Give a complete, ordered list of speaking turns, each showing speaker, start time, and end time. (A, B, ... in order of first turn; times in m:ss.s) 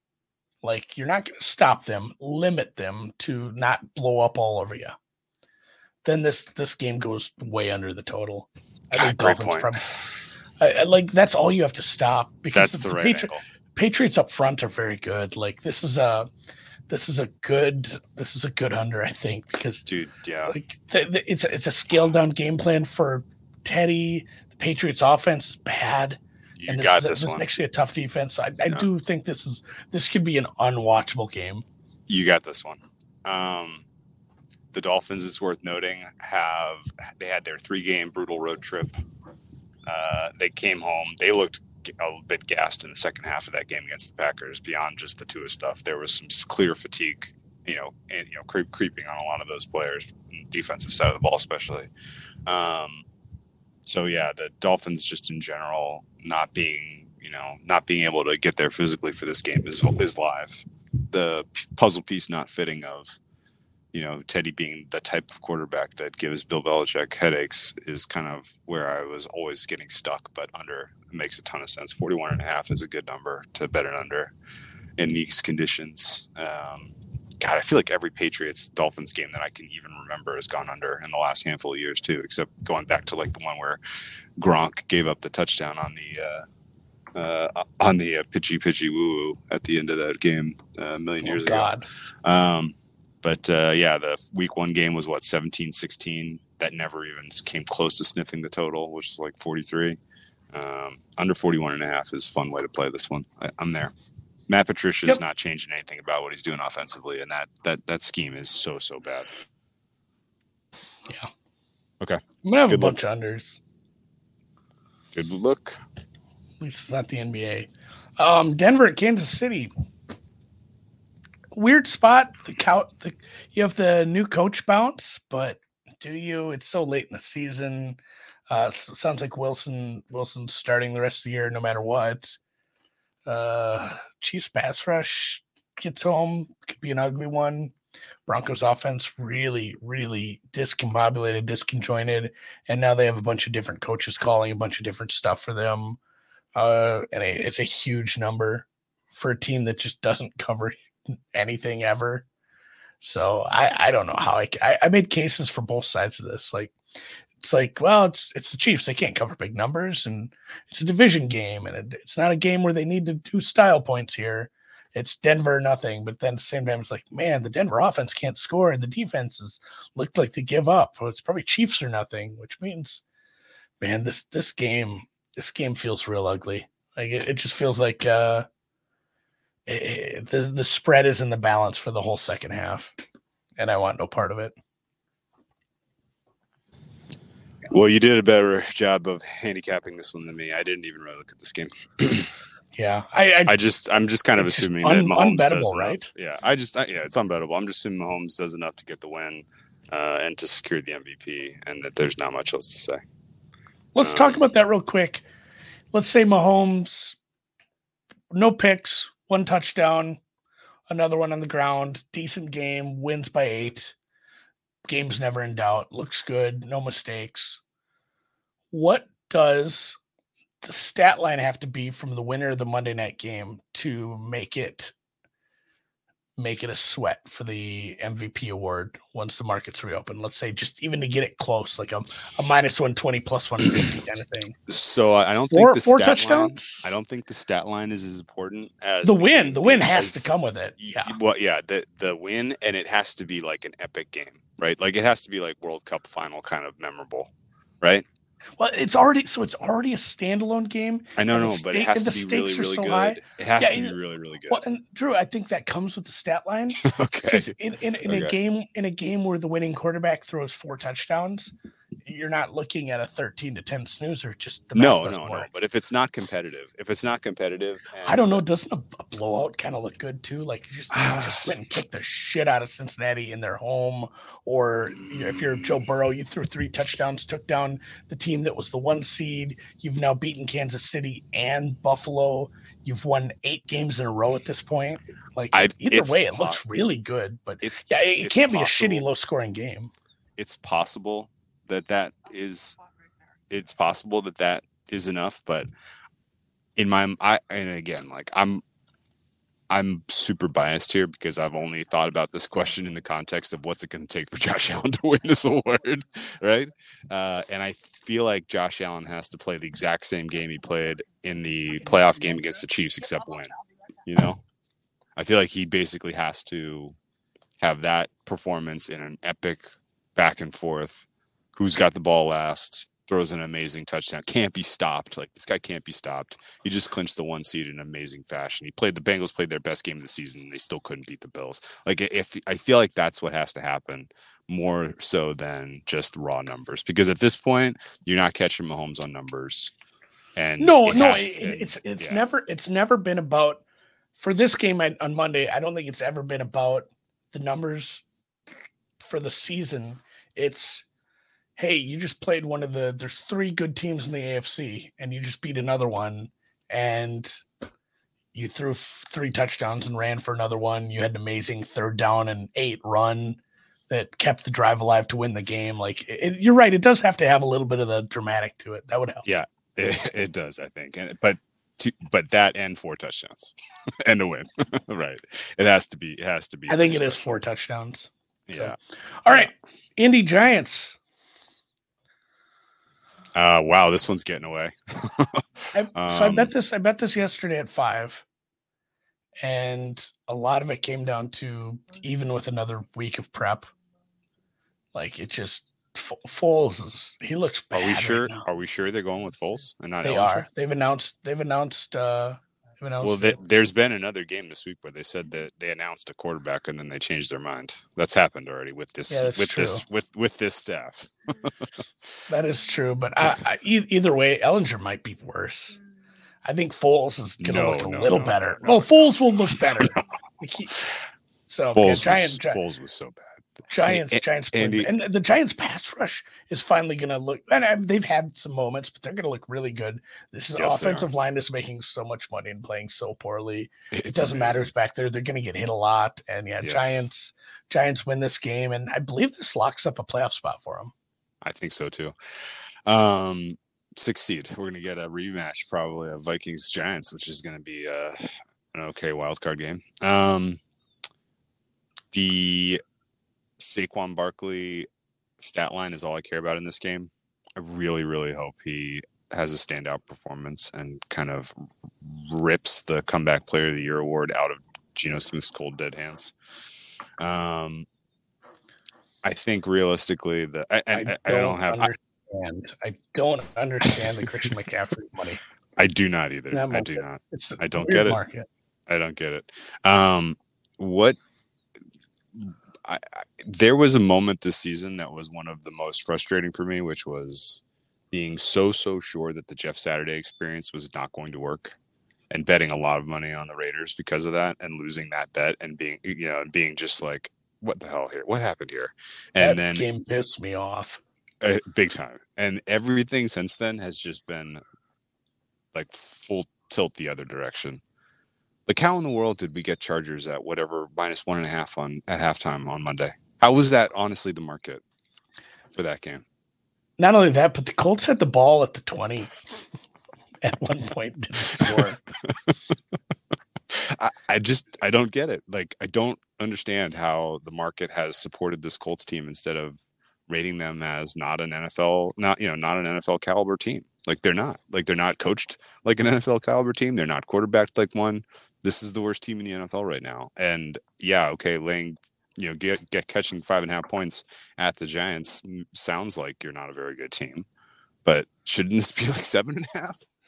0:00.6-0:05.0 A
0:06.0-0:10.0 A
0:08.9-0:10.1 B
0:10.6-0:16.3 A
0:12.5-0:13.4 B
0:16.9-0:19.9 A
0:19.9-0:20.6 B
0:20.5-0:31.6 A
0:26.6-0:27.4 B
0:32.1-0:33.9 B
0:34.7-0:38.9 B
0:39.9-0:51.9 B
0:52.5-0:53.0 B
0:53.8-1:03.2 B
1:03.9-1:14.3 B
1:15.0-1:23.8 B
1:24.4-1:26.5 B
1:27.1-1:31.7 B
1:31.2-1:31.8 A
1:32.2-1:40.0 B
1:40.5-1:43.9 B
1:44.5-1:49.3 B
1:52.0-1:53.0 B
1:52.4-1:53.6 A
1:55.2-1:55.8 B
1:56.6-1:59.7 A
2:01.6-2:08.0 A
2:08.5-2:12.4 A
2:13.3-2:17.7 A
2:18.3-2:26.0 A
2:26.6-2:30.8 A
2:31.3-2:32.3 A
2:33.0-2:36.7 A
2:37.4-2:53.0 A
2:53.8-2:58.5 A
2:59.7-3:02.9 A
3:03.6-3:04.6 A
3:07.7-3:12.3 B
3:12.8-3:13.6 A
3:13.5-3:23.0 B
3:14.4-3:16.1 A
3:24.0-3:25.2 A
3:24.0-3:24.5 B
3:25.9-3:27.2 A
3:28.3-3:30.2 A
3:30.9-3:34.0 A
3:34.9-3:37.6 A
3:38.7-3:40.0 A
3:40.6-3:44.9 A
3:46.4-3:54.6 A
3:54.7-4:08.1 B
3:55.5-3:56.9 A
3:59.0-4:01.2 A
4:08.6-4:14.0 A
4:11.2-4:14.6 B
4:14.5-4:21.5 A
4:16.8-4:18.3 B
4:22.0-4:25.5 A
4:24.8-4:28.4 B
4:28.0-4:49.9 A
4:30.9-4:31.5 B
4:45.5-4:46.7 B
4:47.6-4:49.0 B
4:50.4-4:52.8 B
4:53.5-4:55.7 B
4:56.8-4:58.6 B
4:59.7-5:13.5 B
5:14.0-5:14.4 B
5:15.2-5:16.9 B
5:17.6-5:39.7 B
5:40.4-5:42.2 B
5:40.6-5:43.6 A
5:44.2-5:48.0 A
5:49.0-5:50.8 A
5:51.6-5:57.4 A
5:58.3-6:03.4 A
6:03.9-6:09.2 A
6:09.2-6:17.4 B
6:16.7-6:21.0 A
6:18.5-6:18.8 B
6:23.4-6:26.5 B
6:25.7-6:28.2 A
6:29.4-6:33.7 A
6:34.9-6:38.4 A
6:37.7-6:40.5 B
6:40.0-6:43.4 A
6:43.0-6:51.5 B
6:49.1-6:49.8 A
6:52.3-6:55.8 A
6:56.4-7:00.8 A
6:57.4-6:58.9 B
6:59.6-7:00.0 B
7:01.5-7:02.6 A
7:01.7-7:04.9 B
7:03.7-7:20.9 A
7:10.6-7:11.1 B
7:13.9-7:14.6 B
7:16.6-7:17.1 B
7:21.4-7:30.6 B
7:32.1-7:32.8 B
7:33.6-7:34.9 B
7:35.4-7:46.3 B
7:47.2-7:47.9 B
7:49.2-7:51.9 B
7:50.9-7:55.4 A
7:55.8-7:58.2 B
7:56.5-7:58.5 A
7:58.9-8:01.2 B
8:02.4-8:11.8 B
8:12.3-8:19.8 B
8:19.4-8:21.0 A
8:21.4-8:24.6 B
8:25.7-8:27.8 B
8:28.7-8:34.8 B
8:35.7-8:36.2 B
8:37.0-8:39.4 A
8:40.4-8:42.0 A
8:41.6-8:42.5 B
8:43.7-9:07.5 B
9:08.0-9:10.0 B